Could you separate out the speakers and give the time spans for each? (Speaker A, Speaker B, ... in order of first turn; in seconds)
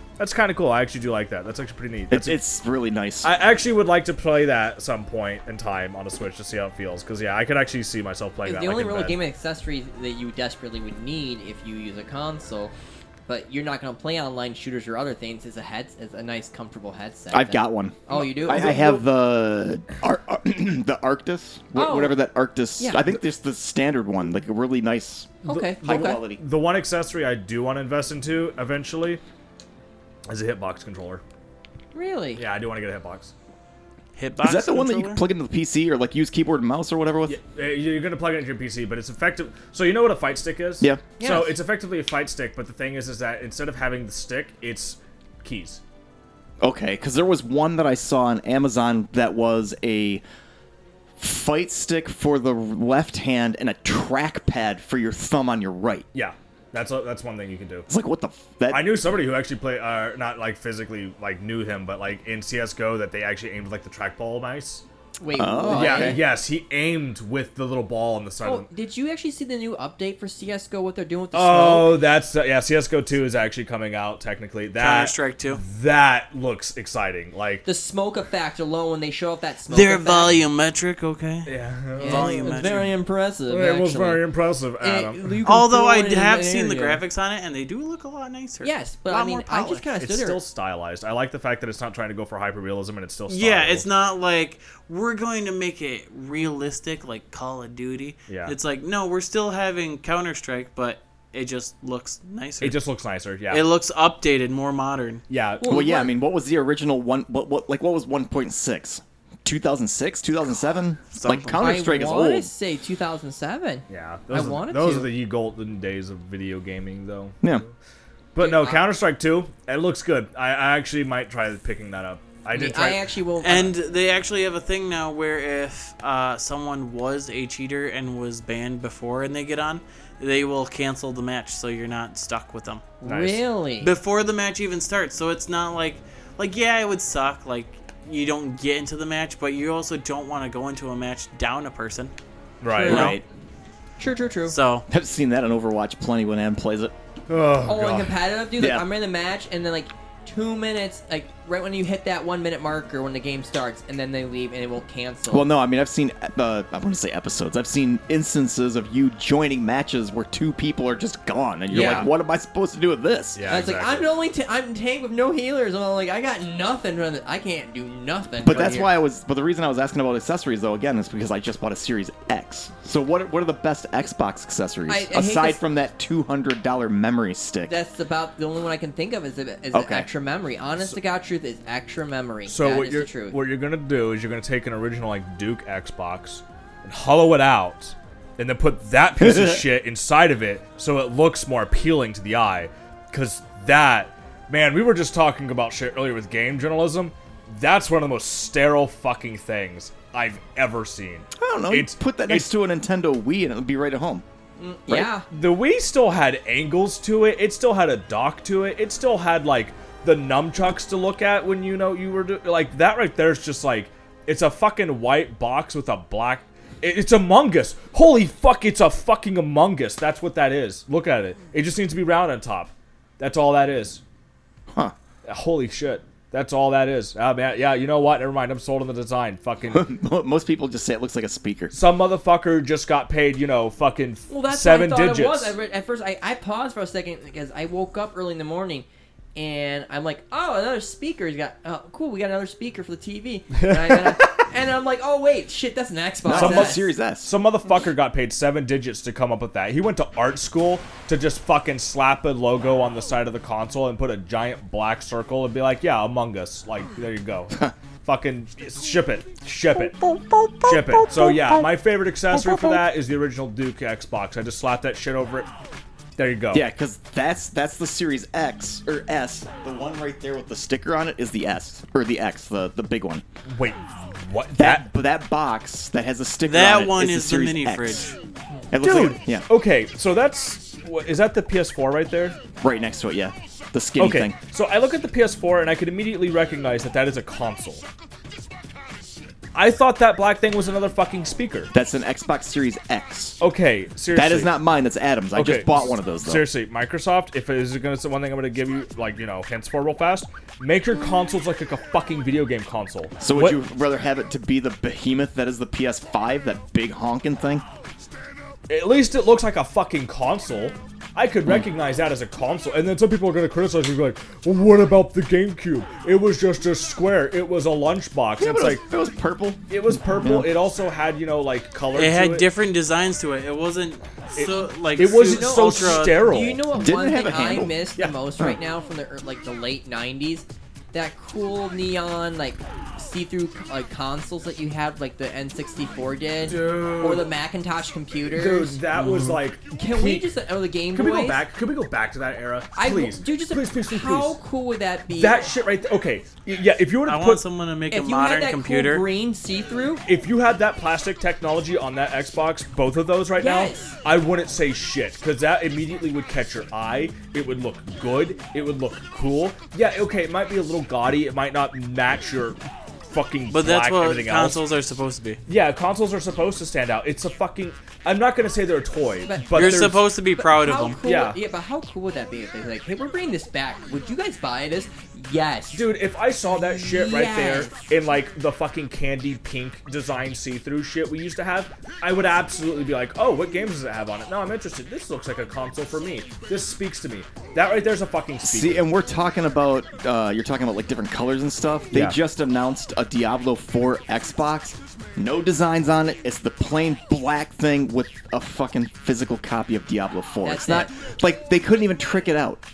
Speaker A: 0.2-2.4, 3.2-9.2, 25.5-29.2, 30.3-31.2, 32.4-33.3, 37.3-45.8, 56.1-57.9, 58.7-64.8, 65.7-68.7, 71.3-77.7, 81.5-82.9, 83.5-85.4, 90.0-93.9, 98.3-98.5, 102.6-103.6, 105.3-105.9, 113.9-117.7, 118.3-123.1, 133.0-133.4, 142.6-143.2, 147.3-148.2, 161.7-162.1, 163.3-164.1, 182.4-202.5, 205.3-224.0, 225.2-229.9, 231.7-235.5, 243.6-244.4, 246.3-260.0, 260.6-265.5, 266.2-266.7, 273.4-274.9, 278.8-282.4, 284.0-287.8, 289.5-291.7, 293.4-294.6, 295.3-303.6, 308.7-318.8, 319.7-322.4, 324.4-326.7, 336.4-337.3, 338.3-340.3, 340.9-344.4, 345.1-347.4, 350.1-364.6, 365.5-370.1, 371.0-371.4, 375.7-388.9, 391.9-392.2
Speaker B: 2.1-3.3, 17.3-26.4, 34.4-37.4, 40.8-41.0, 46.6-50.2, 51.2-56.0, 57.9-59.0, 65.3-66.2, 105.7-112.5, 142.8-143.2, 144.9-146.9, 148.6-148.8, 155.3-163.6, 168.4-177.7, 179.7-180.1, 189.2-189.7, 201.3-204.2, 229.7-231.7, 246.2-247.3, 260.1-261.5, 266.5-273.2, 274.6-278.1, 278.7-279.4, 282.6-284.4, 291.7-293.4, 294.1-296.5, 303.2-307.6, 318.4-320.5, 326.7-327.9, 388.4-402.6
Speaker C: 8.4-12.7, 13.3-19.0, 21.7-22.2, 22.8-23.1, 25.4-26.2, 31.9-32.4, 41.2-41.5, 65.2-66.2, 68.4-72.0, 77.6-80.4, 82.0-84.3, 84.8-87.0, 88.6-90.4, 105.6-106.1, 111.6-115.1, 118.4-118.9, 122.5-123.7, 133.0-133.9, 142.7-143.2, 144.0-144.6, 147.6-155.5, 161.7-162.1, 163.5-168.9, 174.9-175.6, 177.7-183.4, 204.6-205.2, 234.3-246.9, 325.2-338.8, 339.7-341.4, 342.7-345.5, 347.9-350.0, 353.4-354.0, 369.2-375.9, 376.6-377.7, 400.4-400.9
Speaker D: 34.1-35.2, 74.8-75.6, 79.7-82.8, 85.4-89.8, 93.3-102.8, 103.5-105.2, 111.1-111.7, 123.4-132.9, 133.8-142.1, 142.8-143.2, 144.5-144.8, 276.4-278.1, 321.9-326.2, 338.9-339.4, 347.0-349.0, 363.5-365.4, 369.5-371.0